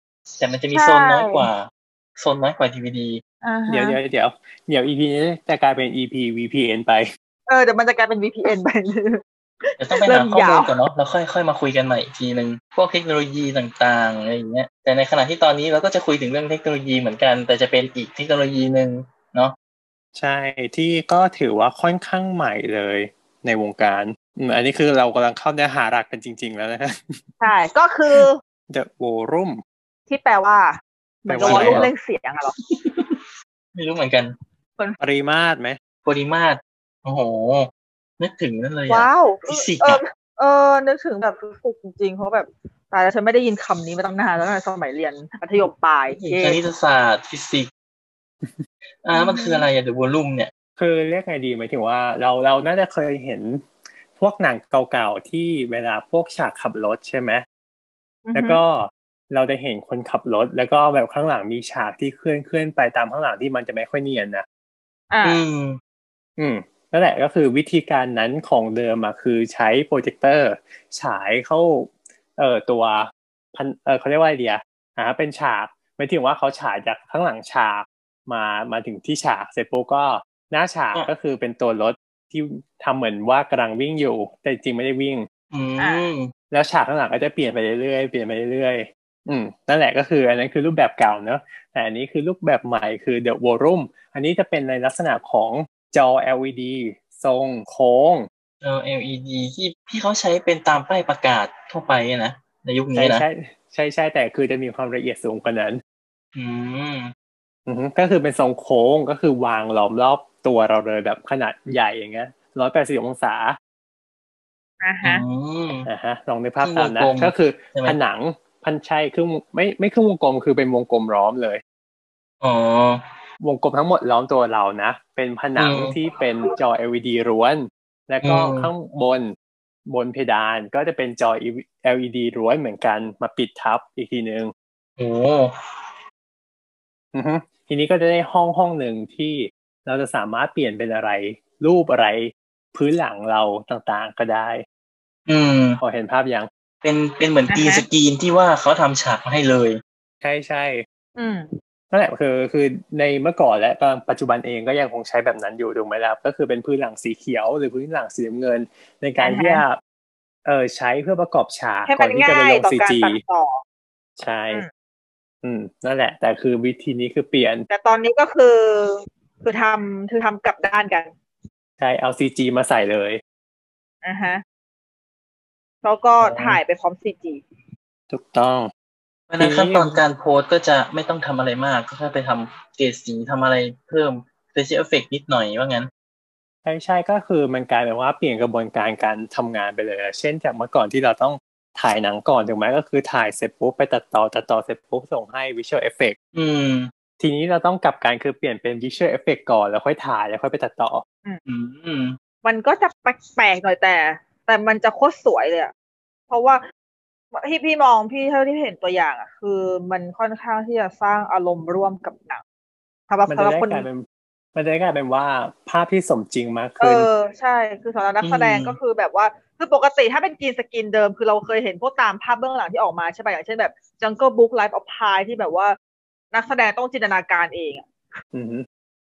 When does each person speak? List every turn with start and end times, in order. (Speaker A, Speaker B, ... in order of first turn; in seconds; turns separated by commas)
Speaker A: 0.4-3.2, Speaker B: 0.7-1.5, Speaker B: 3.4-4.0, Speaker C: 3.7-7.0, Speaker B: 7.5-9.2, Speaker B: 9.7-10.7, Speaker A: 9.8-19.6, Speaker C: 20.2-27.3, Speaker B: 27.4-28.4, Speaker C: 28.7-29.6, Speaker B: 30.1-32.5, Speaker C: 31.3-31.9, Speaker A: 31.4-31.9, Speaker A: 32.6-34.3, Speaker C: 35.0-35.8, Speaker A: 36.0-40.0, Speaker B: 38.9-46.6, Speaker A: 46.1-47.7, Speaker A: 49.0-50.5, Speaker B: 49.1-49.7, Speaker C: 50.8-57.4, Speaker B: 58.3-58.6, Speaker C: 58.3-64.5, Speaker B: 65.1-65.4, Speaker A: 65.2-65.8, Speaker C: 66.4-85.3, Speaker A: 85.5-86.3, Speaker B: 85.8-86.0, Speaker C: 86.5-98.3, Speaker A: 98.6-103.2, Speaker C: 103.0-105.8, Speaker A: 106.3-107.1, Speaker C: 107.7-113.6, Speaker B: 114.8-115.2, Speaker A: 115.0-115.9, Speaker C: 115.9-121.6, Speaker A: 116.6-118.0, Speaker A: 122.4-123.2, Speaker C: 123.4-129.3, Speaker A: 125.5-125.9, Speaker A: 128.2-128.7, Speaker C: 129.9-134.5, Speaker A: 135.0-135.6, Speaker C: 137.1-144.6, Speaker A: 145.3-145.8, Speaker C: 145.8-146.5, Speaker A: 146.8-149.8, Speaker B: 147.5-147.8, Speaker C: 150.2-150.8, Speaker B: 151.2-151.5, Speaker C: 151.9-159.8, Speaker B: 159.2-159.6, Speaker C: 160.4-163.2, Speaker B: 161.9-163.6, Speaker C: 164.2-164.6, Speaker C: 165.4-167.7, Speaker B: 167.7-171.1, Speaker C: 171.8-173.2, Speaker B: 174.0-174.4, Speaker B: 175.8-177.4, Speaker C: 176.2-176.6, Speaker C: 178.1-178.7, Speaker A: 179.3-185.9, Speaker C: 179.4-180.0, Speaker C: 186.6-196.2, Speaker A: 196.3-196.9, Speaker C: 197.2-201.0, Speaker A: 201.4-202.2, Speaker B: 202.4-205.7, Speaker B: 206.3-206.6, Speaker B: 207.3-212.4, Speaker B: 213.1-213.8, Speaker C: 213.3-217.1, Speaker B: 216.8-225.8, Speaker A: 218.2-218.8, Speaker B: 226.3-227.9, Speaker C: 228.3-228.7